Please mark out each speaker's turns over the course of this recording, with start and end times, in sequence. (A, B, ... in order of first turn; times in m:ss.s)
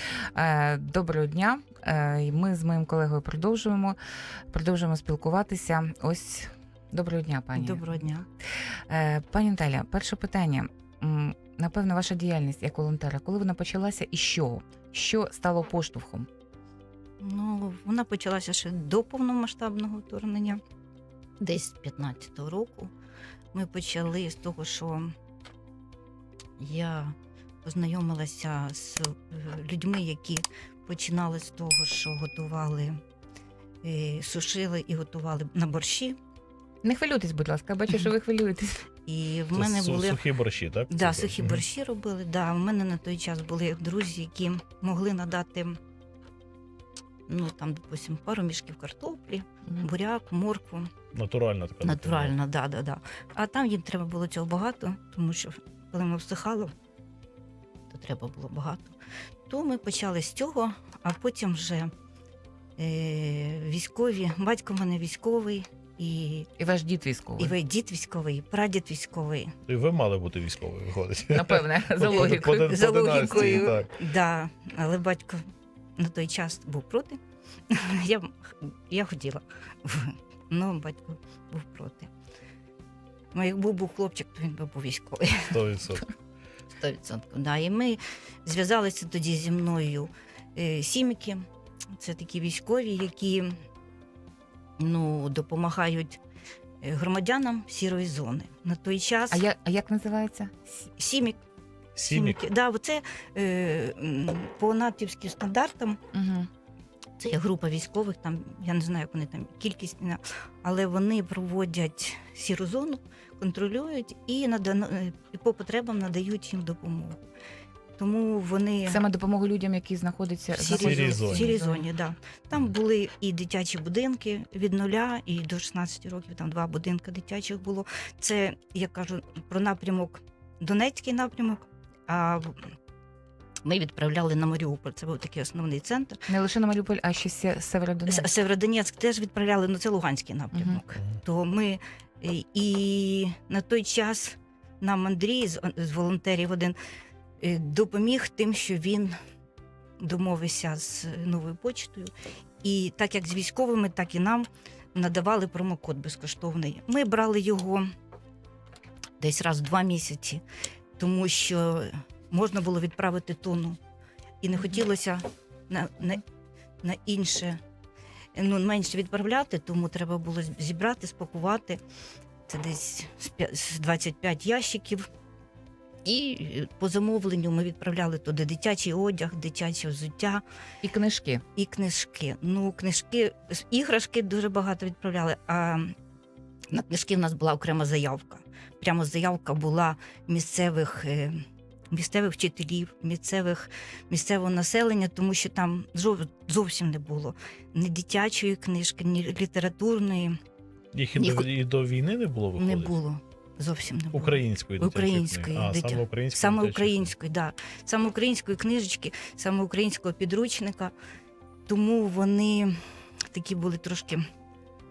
0:00.3-0:04.0 A
0:04.5-0:08.0 A
0:07.6-0:08.3 B
0:08.9-0:16.3 A
0:17.2-0:20.6 B
0:21.4-0:22.9 B
0:23.5-0:25.1 B
0:26.6-0:33.0 B
0:33.8-0:36.2 B
0:36.8-0:38.8 A
0:39.1-0:40.2 B
0:39.6-0:41.6 C
0:40.9-0:45.8 B
0:47.3-0:50.9 B
0:51.1-0:52.3 C
0:51.8-0:56.7 B
0:57.9-0:59.0 B
0:59.5-1:01.9 B
1:02.8-1:06.5 B
1:06.6-1:07.6 A
1:07.4-1:09.5 B
1:09.7-1:14.0 C
1:11.3-1:13.7 A
1:12.0-1:15.4 B
1:16.0-1:17.2 B
1:17.7-1:22.1 B
1:23.3-1:25.6 B
1:25.5-1:26.1 C
1:26.7-1:31.4 B
1:32.0-1:33.6 B
1:34.8-1:36.2 B
1:36.8-1:39.4 B
1:39.3-1:40.8 A
1:41.0-1:41.4 B
1:42.0-1:42.4 C
1:42.0-1:46.0 B
1:46.1-1:46.5 A
1:47.2-1:57.2 B
1:58.0-1:59.0 B
1:58.9-2:01.8 A
2:00.6-2:12.7 B
2:00.7-2:01.5 C
2:13.7-2:16.2 B
2:16.3-2:18.3 A
2:18.1-2:26.8 B
2:20.5-2:20.8 A
2:27.4-2:29.2 B
2:30.0-2:32.1 B
2:32.6-2:37.9 B
2:39.2-2:40.4 B
2:41.0-2:43.8 B
2:44.4-2:46.2 B
2:46.8-2:47.6 B
2:48.4-2:51.8 B
2:52.5-2:55.1 B
2:56.1-3:00.4 B
3:00.8-3:01.4 A
3:01.6-3:05.9 B
3:06.7-3:11.4 B
3:11.9-3:20.4 B
3:20.9-3:23.0 C
3:21.2-3:21.5 B
3:22.6-3:30.9 B
3:24.1-3:27.1 C
3:31.7-3:32.8 B
3:33.3-3:34.2 B